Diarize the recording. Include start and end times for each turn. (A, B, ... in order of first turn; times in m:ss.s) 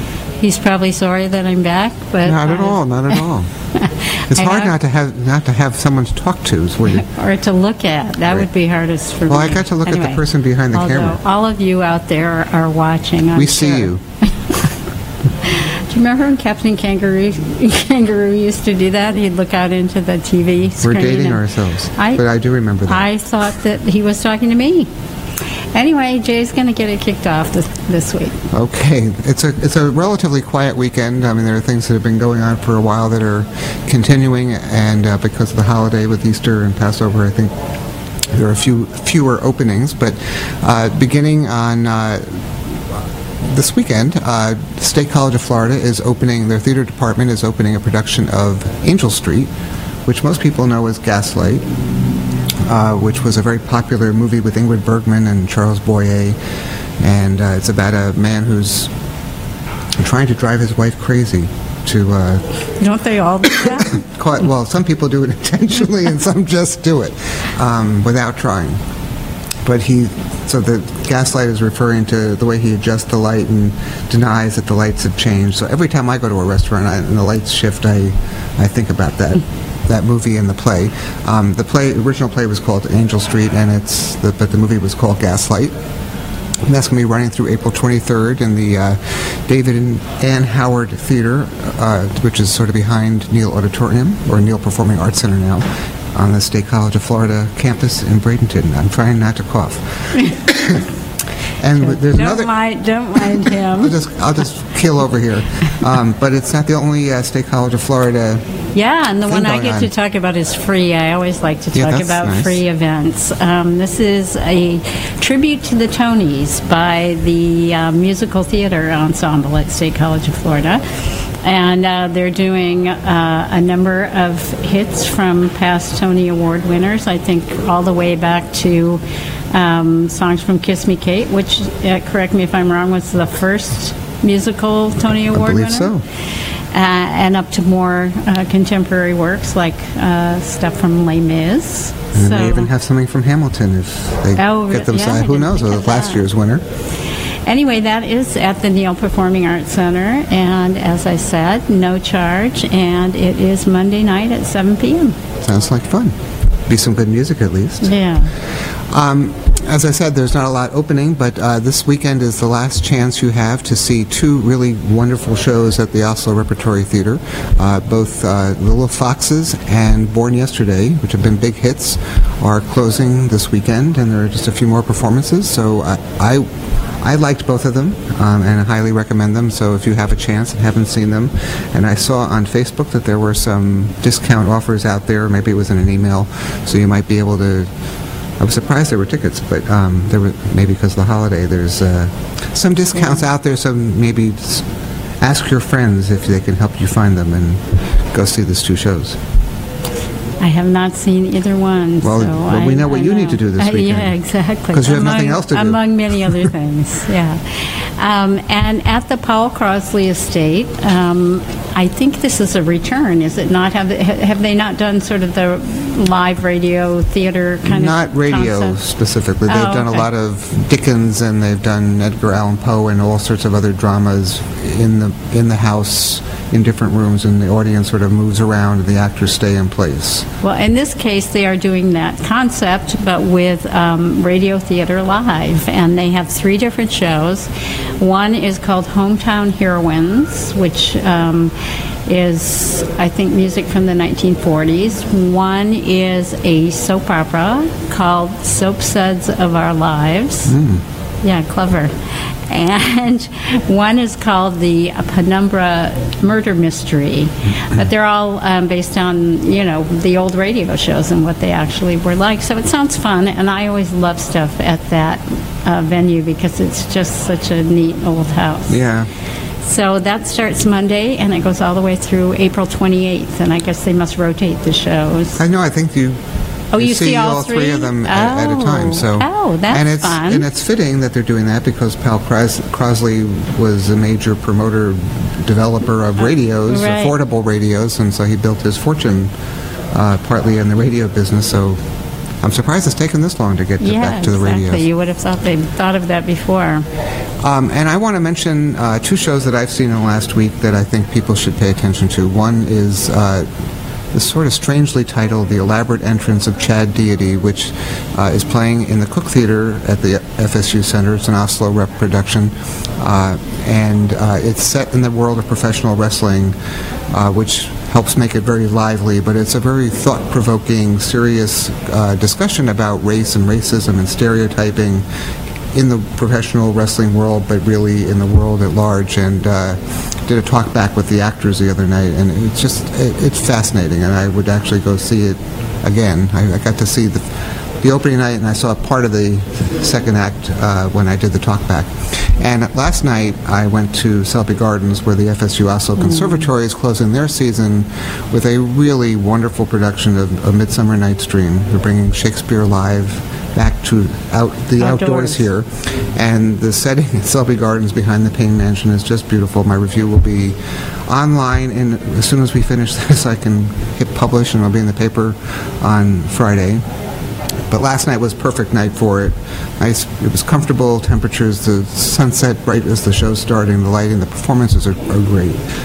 0:00.4-0:03.2 A
0:02.2-0:03.5 B
0:03.7-0:04.7 A
0:04.3-0:07.0 B
0:06.9-0:10.2 A
0:09.3-0:11.2 B
0:10.7-0:14.6 A
0:13.4-0:14.0 B
0:15.4-0:21.4 A
0:20.8-0:23.0 B
0:22.0-0:22.2 A
0:22.9-0:24.9 A
0:25.7-0:28.4 A
0:28.5-0:37.5 B
0:38.3-0:42.2 B
0:43.5-0:49.5 B
0:50.0-0:51.6 B
0:52.6-0:56.4 B
0:57.0-0:58.9 B
1:00.0-1:02.5 B
1:02.8-1:04.0 A
1:03.8-1:08.8 B
1:09.6-1:25.7 B
1:26.7-1:40.8 B
1:41.6-1:42.5 B
1:41.8-1:44.0 A
1:43.2-1:48.4 B
1:48.7-2:09.0 A
1:49.2-1:49.9 B
1:51.7-1:52.6 B
2:09.5-2:15.9 A
2:15.3-2:16.0 B
2:16.7-2:22.7 A
2:22.1-2:26.6 B
2:24.4-2:26.2 A
2:27.4-2:35.1 A
2:35.4-2:36.1 B
2:36.7-2:37.9 B
2:37.8-2:38.3 A
2:38.9-2:56.5 B
2:57.0-3:07.7 B
3:08.4-3:14.6 B
3:13.0-3:13.2 A
3:15.2-3:19.2 B
3:20.4-3:38.8 A
3:22.0-3:24.1 B
3:24.7-3:26.3 B
3:37.6-3:50.2 B
3:39.5-3:40.1 A
3:50.4-4:01.5 A
4:02.0-4:10.6 A
4:10.5-4:10.8 B
4:11.2-4:28.8 A
4:28.7-4:29.1 B
4:29.6-4:35.4 A
4:35.4-4:36.2 B
4:36.7-4:40.4 A
4:36.8-4:49.3 B
4:46.6-4:47.1 A
4:49.9-4:51.8 B
4:52.4-4:54.8 B
4:53.8-4:56.8 A
4:57.4-5:03.5 B
5:04.1-5:16.5 B
5:17.1-5:25.0 B
5:25.7-5:37.2 B
5:37.8-6:00.6 B
5:46.0-5:46.5 A
5:54.8-5:55.5 A
6:01.1-6:06.8 B
6:07.7-6:15.6 B